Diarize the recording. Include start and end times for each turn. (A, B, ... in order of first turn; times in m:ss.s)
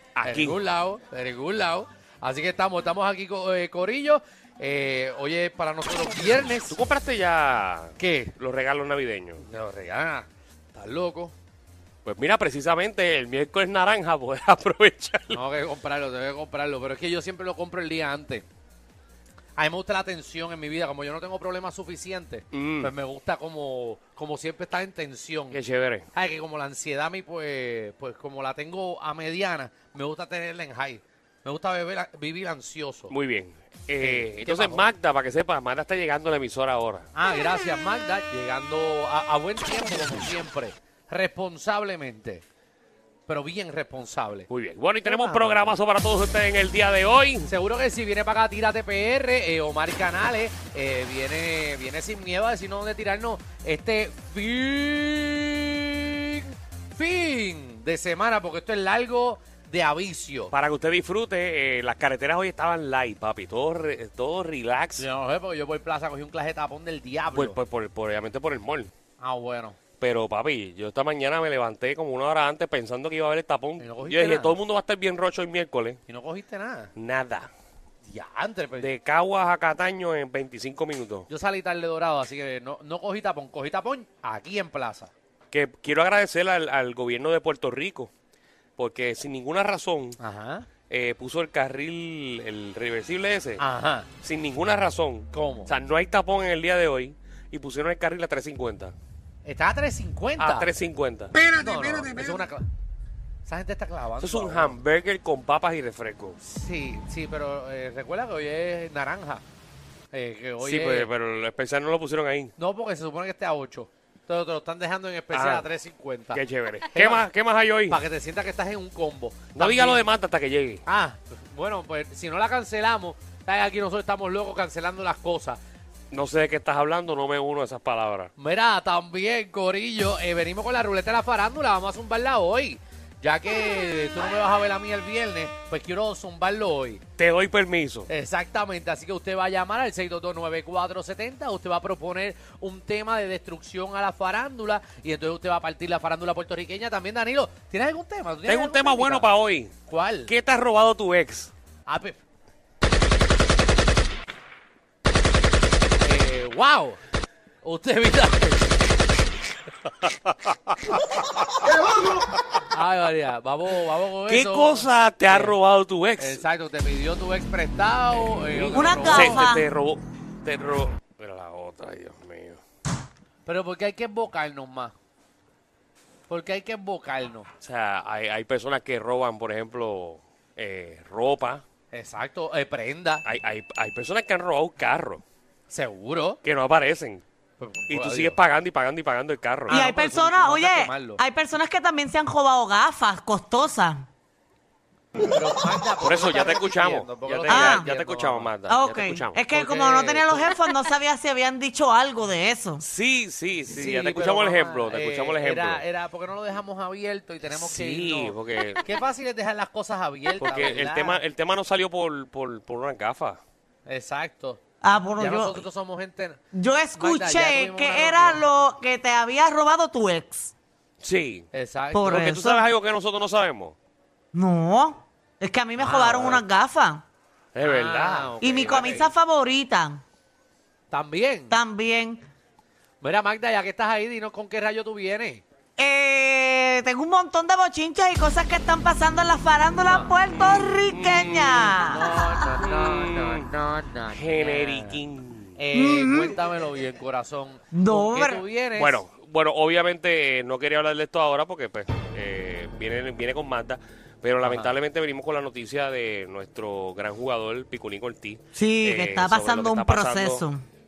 0:00.2-0:00.6 A
0:00.2-0:06.8 B
0:06.7-0:09.4 A
0:08.0-0:08.3 B
0:09.4-0:11.3 B
0:12.0-0:15.4 A
0:15.3-0:18.4 B
0:19.6-0:25.6 B
0:22.5-0:22.9 A
0:25.5-0:26.1 A
0:26.1-0:33.1 B
0:33.1-0:37.1 A
0:34.0-0:34.8 B
0:37.1-0:42.4 B
0:43.3-0:44.5 B
0:44.5-0:47.5 A
0:45.0-0:45.7 B
0:47.5-1:00.5 B
1:00.5-1:05.0 A
1:05.0-1:07.6 B
1:07.3-1:08.9 A
1:09.2-1:09.8 B
1:10.0-1:16.0 A
1:13.8-1:14.6 B
1:16.1-1:16.9 B
1:17.0-1:17.5 A
1:18.0-1:18.9 B
1:18.8-1:21.3 A
1:21.3-1:25.1 B
1:25.5-1:28.1 A
1:28.8-1:30.2 A
1:30.2-1:30.7 B
1:30.9-1:33.6 A
1:33.6-1:34.1 B
1:34.2-1:38.9 A
1:35.3-1:35.7 B
1:39.4-1:40.7 B
1:40.4-1:41.4 A
1:41.5-1:42.6 B
1:43.4-1:44.8 B
1:44.2-1:46.4 A
1:46.4-1:49.4 B
1:50.1-1:51.1 B
1:50.6-1:52.5 A
1:52.6-1:56.4 B
1:55.3-1:55.7 A
1:56.3-1:58.0 A
1:56.9-1:57.3 B
1:57.9-2:00.0 B
1:59.5-2:00.8 A
2:00.8-2:05.6 B
2:06.1-2:08.3 A
2:08.4-2:17.0 B
2:17.2-2:18.1 A
2:18.1-2:29.3 B
2:28.4-2:29.7 A
2:29.9-2:30.3 B
2:30.3-2:31.5 A
2:31.8-2:32.2 B
2:36.0-2:37.0 B
2:37.6-2:38.8 B
2:40.0-2:41.7 A
2:42.6-2:45.6 B
2:44.2-2:46.4 A
2:46.2-2:49.5 B
2:48.1-2:52.6 A
2:48.7-2:49.7 C
2:53.4-2:54.9 B
2:56.3-2:57.5 B
2:57.6-3:01.6 A
3:01.9-3:03.2 B
3:03.2-3:05.2 A
3:05.7-3:06.4 B
3:06.4-3:07.2 A
3:07.6-3:08.4 B
3:07.9-3:09.8 A
3:09.7-3:11.2 B
3:09.7-3:14.1 C
3:15.2-3:18.5 B
3:16.0-3:19.4 A
3:17.5-3:17.9 C
3:18.7-3:22.8 C
3:19.5-3:20.5 B
3:22.8-3:25.8 A
3:23.7-3:31.2 B
3:27.6-3:28.8 A
3:30.4-3:33.4 A
3:33.8-3:34.6 B
3:34.8-3:35.6 C
3:35.2-3:36.4 B
3:36.5-3:40.5 C
3:36.9-3:38.4 B
3:41.0-3:41.5 A
3:41.5-3:42.4 B
3:41.9-3:42.6 C
3:42.0-3:43.8 A
3:44.3-3:47.0 C
3:45.8-3:46.4 B
3:47.5-3:48.8 A
3:47.6-3:49.1 B
3:48.4-3:50.0 C
3:50.9-3:51.6 B
3:51.5-3:52.2 C
3:53.0-3:55.4 B
3:55.8-4:02.1 C
4:00.3-4:01.8 A
4:01.7-4:05.0 B
4:02.4-4:03.5 A
4:04.1-4:05.6 A
4:05.6-4:09.0 B
4:05.7-4:06.4 C
4:07.7-4:08.4 C
4:08.8-4:20.4 A
4:14.4-4:14.8 B
4:18.5-4:20.6 C